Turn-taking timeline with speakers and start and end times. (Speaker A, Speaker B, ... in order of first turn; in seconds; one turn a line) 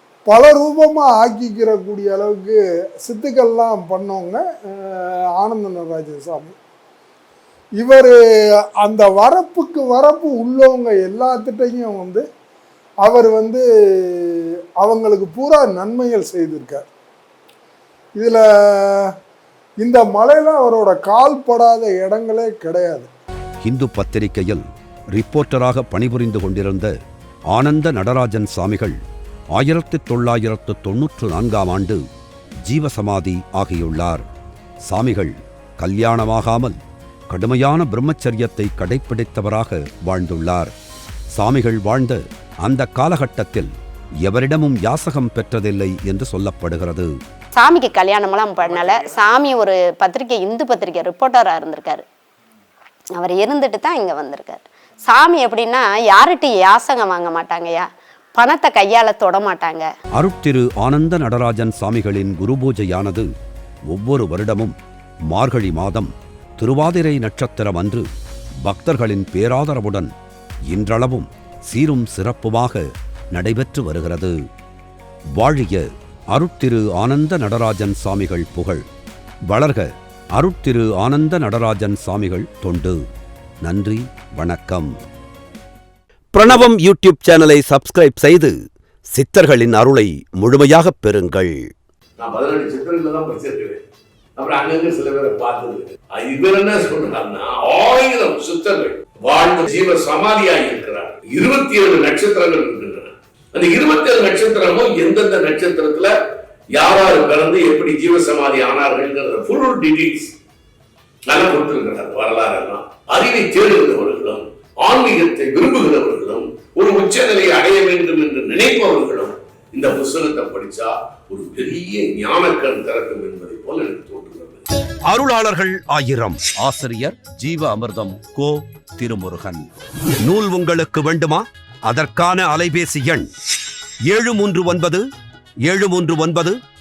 Speaker A: 0.3-6.5
Speaker A: 7.8-8.1
Speaker A: 8.8-12.2
Speaker A: 13.0-16.9
Speaker A: 18.1-19.1
Speaker A: 19.8-23.1
Speaker B: 23.6-24.6
Speaker B: 25.1-26.9
Speaker B: 27.5-28.9
Speaker B: 29.5-32.0
Speaker B: 32.6-34.2
Speaker B: 34.9-36.8
Speaker B: 37.3-40.7
Speaker B: 41.3-43.7
Speaker B: 44.2-47.1
Speaker C: 47.5-52.0
Speaker C: 53.1-59.9
Speaker B: 60.1-63.3
Speaker B: 63.9-64.7
Speaker B: 65.3-68.1
Speaker B: 68.6-70.1
Speaker B: 70.7-74.3
Speaker B: 75.3-78.8
Speaker B: 79.5-83.0
Speaker B: 83.6-85.0
Speaker B: 86.3-88.5
Speaker B: 89.1-91.6
Speaker D: 92.2-93.8
Speaker D: 94.4-106.1
Speaker D: 106.7-110.3
Speaker D: 111.2-124.7
Speaker B: 125.1-129.6
Speaker B: 130.2-133.3
Speaker B: 134.1-135.0
Speaker B: 135.6-136.6